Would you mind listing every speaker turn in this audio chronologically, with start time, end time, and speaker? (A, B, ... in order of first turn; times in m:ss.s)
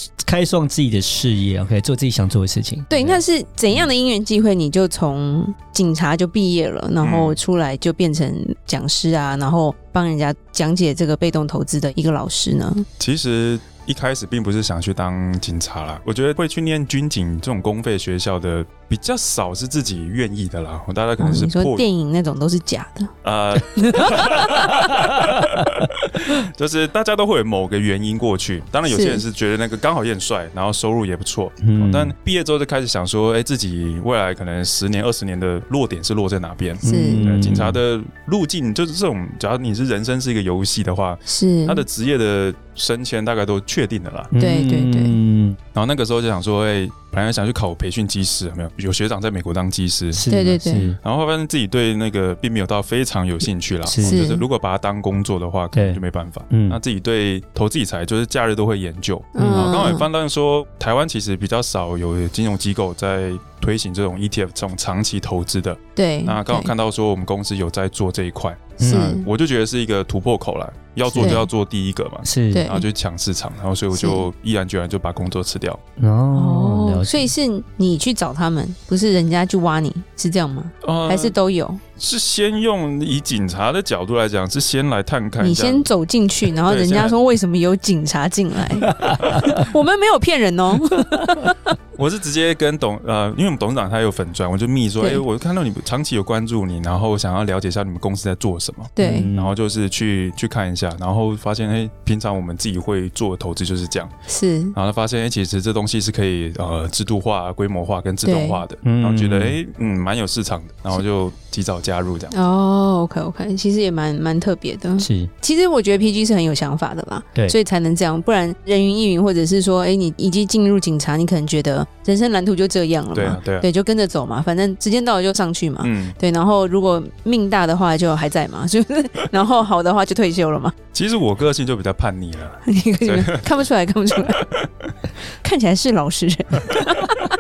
0:00.2-0:03.2 A
0:02.9-0:12.9 B
0:07.0-0:07.4 C
0:13.0-0:21.8 C
0:21.2-0:23.1 B
0:23.2-0:44.3 C
0:28.9-0:29.2 B
0:31.6-0:32.1 A
0:36.8-0:37.8 A
0:36.8-0:37.3 B
0:41.3-0:41.8 B
0:44.3-0:45.6 A
0:44.4-0:45.2 B
0:45.7-0:50.2 C
0:50.1-0:51.0 A
0:50.3-0:51.0 B
0:51.0-1:15.8 C
0:53.8-0:54.2 A
0:54.0-0:54.4 B
0:55.7-0:56.8 A
0:59.4-1:00.1 B
0:59.4-0:59.7 A
1:06.0-1:06.7 B
1:08.8-1:09.1 A
1:08.8-1:09.3 B
1:11.1-1:11.4 A
1:11.2-1:11.5 B
1:12.2-1:12.6 A
1:12.5-1:12.9 B
1:13.9-1:14.3 B
1:16.0-1:17.3 A
1:16.3-1:21.8 B
1:20.8-1:21.4 C
1:22.0-1:25.9 C
1:25.4-1:28.9 B
1:26.6-1:27.2 C
1:28.9-1:29.6 A
1:29.5-1:31.6 B
1:32.0-1:44.1 C
1:39.0-1:39.3 B
1:39.0-1:39.5 A
1:44.3-1:44.8 B
1:44.7-1:52.3 C
1:48.2-1:48.6 B
1:48.8-1:49.6 A
1:52.3-2:10.8 B
1:55.0-1:55.3 A
2:03.1-2:03.7 C
2:05.8-2:06.2 C
2:10.9-2:13.4 C
2:12.7-2:14.4 B
2:14.4-2:14.7 C
2:15.4-2:17.1 B